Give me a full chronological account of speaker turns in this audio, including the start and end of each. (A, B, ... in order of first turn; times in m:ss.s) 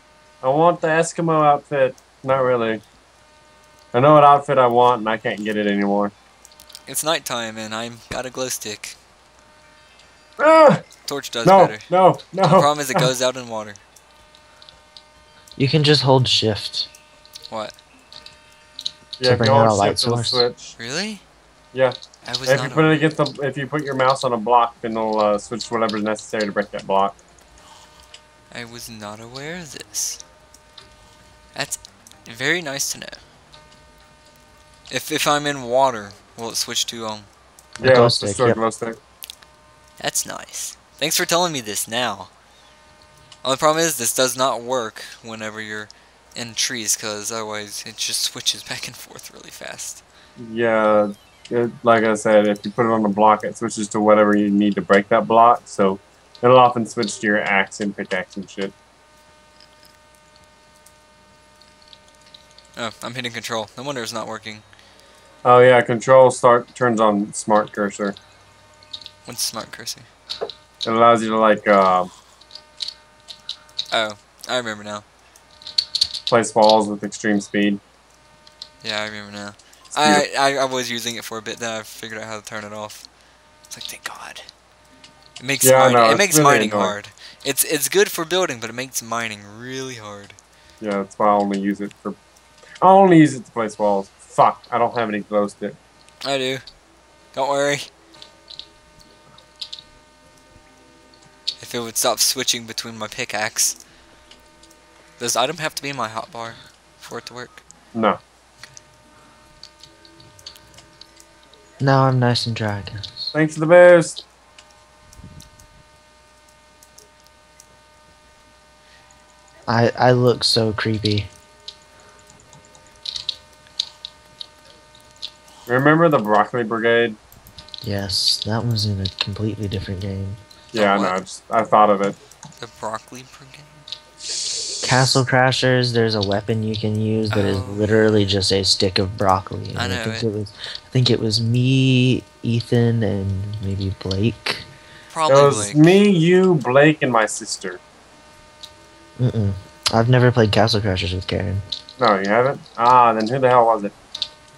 0:00.4-0:02.8 A
0:03.9-0:06.1 A
0:06.9-0:09.0 B
0:10.4-0:10.8 A
0:11.1-0:11.9 B
0:11.4-0:13.1 A
0:12.4-0:13.8 B
0:15.6-0:16.9 C
0:17.5-0:17.8 B
0:19.2-0:20.8 A
0:19.2-0:20.4 C
0:20.8-0:21.2 B
0:21.7-0:27.2 A
0:22.2-0:23.1 B
0:28.5-0:30.2 B
0:31.6-0:33.2 B
0:34.9-0:37.3 B
0:37.8-0:38.6 C
0:37.8-0:39.0 A
0:40.0-0:42.3 B
0:43.4-0:50.0 B
0:50.4-0:58.8 A
1:02.8-1:04.6 B
1:05.4-1:08.2 A
1:09.3-1:10.1 B
1:10.8-1:12.1 A
1:13.9-1:15.0 B
1:16.3-1:17.8 A
1:18.8-1:23.1 B
1:20.0-1:20.2 A
1:23.7-1:24.5 B
1:25.4-1:30.4 B
1:25.6-1:27.0 A
1:30.8-1:32.2 A
1:32.8-1:35.8 A
1:36.2-1:36.6 B
1:37.3-1:37.9 B
1:41.6-1:43.8 B
1:45.2-1:47.6 B
1:51.8-1:53.3 C
1:53.3-1:54.2 A
1:59.7-2:01.3 C
2:05.7-2:07.2 A
2:07.8-2:10.4 C
2:10.7-2:11.2 B
2:10.7-2:12.2 A
2:12.6-2:13.9 B
2:14.5-2:15.2 A
2:14.8-2:24.7 C
2:17.3-2:18.2 B
2:19.8-2:20.3 B
2:25.1-2:26.0 B
2:25.3-2:27.8 A
2:29.2-2:31.6 C
2:32.0-2:33.9 A